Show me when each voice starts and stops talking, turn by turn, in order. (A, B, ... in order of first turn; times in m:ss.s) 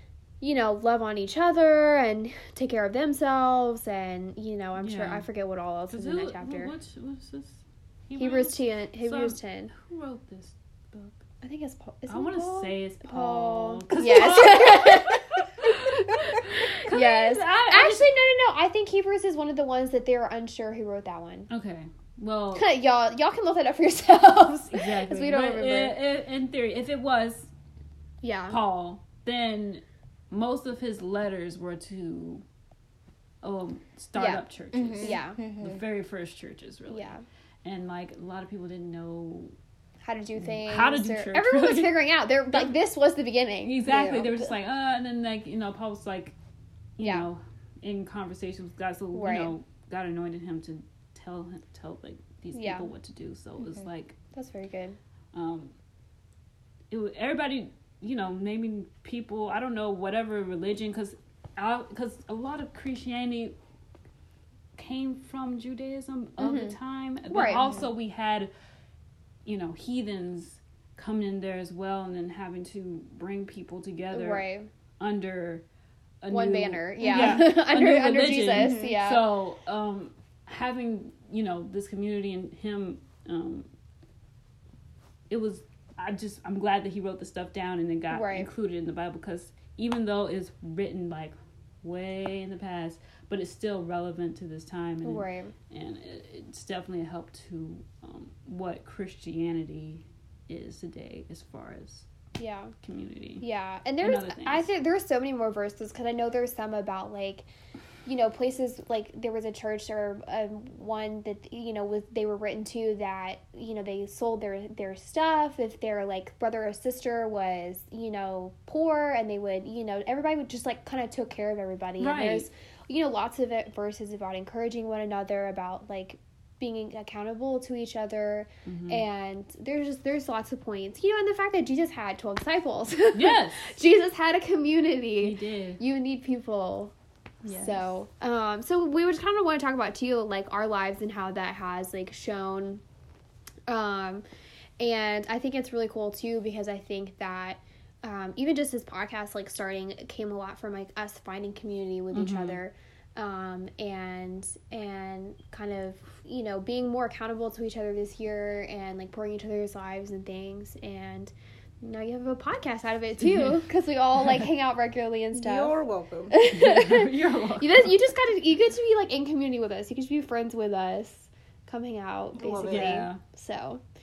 0:00.4-0:06.7 A
0:04.8-0:05.2 B
0:05.9-0:11.2 B
0:08.2-0:09.7 A
0:11.4-0:21.5 A
0:12.1-0:18.1 B
0:21.5-0:22.7 B
0:22.5-0:26.0 A
0:24.7-0:27.5 B
0:28.2-0:28.6 A
0:28.5-0:32.4 B
0:33.4-0:39.5 B
0:34.2-0:34.4 A
0:34.7-0:35.8 C
0:35.0-0:35.4 A
0:36.9-0:37.2 A
0:40.0-0:43.9 A
0:40.4-0:42.7 B
0:43.6-0:46.3 B
0:43.8-0:44.4 C
0:47.0-0:54.2 B
0:47.0-0:47.2 A
0:49.1-0:49.5 A
0:52.5-0:52.9 A
0:54.3-0:55.0 A
0:55.3-0:55.7 B
0:56.9-1:03.6 B
1:04.8-1:08.5 B
1:06.4-1:06.8 A
1:07.3-1:07.8 A
1:09.4-1:14.5 B
1:14.1-1:14.7 A
1:15.0-1:15.6 B
1:16.2-1:23.7 B
1:16.3-1:19.3 A
1:18.5-1:19.0 C
1:25.3-1:42.0 B
1:28.1-1:28.5 A
1:35.0-1:35.5 A
1:42.4-1:42.7 A
1:42.8-1:43.4 B
1:43.4-1:47.5 A
1:44.0-1:44.7 B
1:48.0-2:16.9 A
2:02.0-2:02.5 B
2:08.6-2:09.0 B
2:13.1-2:13.7 B
2:15.2-2:15.8 B
2:17.4-2:17.8 B
2:17.5-2:22.8 A
2:23.7-2:24.2 A
2:24.8-2:45.8 A
2:32.1-2:32.6 B
2:43.2-2:43.5 B
2:45.3-2:46.3 C
2:46.3-2:53.8 A
2:46.4-2:48.0 B
2:52.3-2:53.0 C
2:52.6-2:53.2 B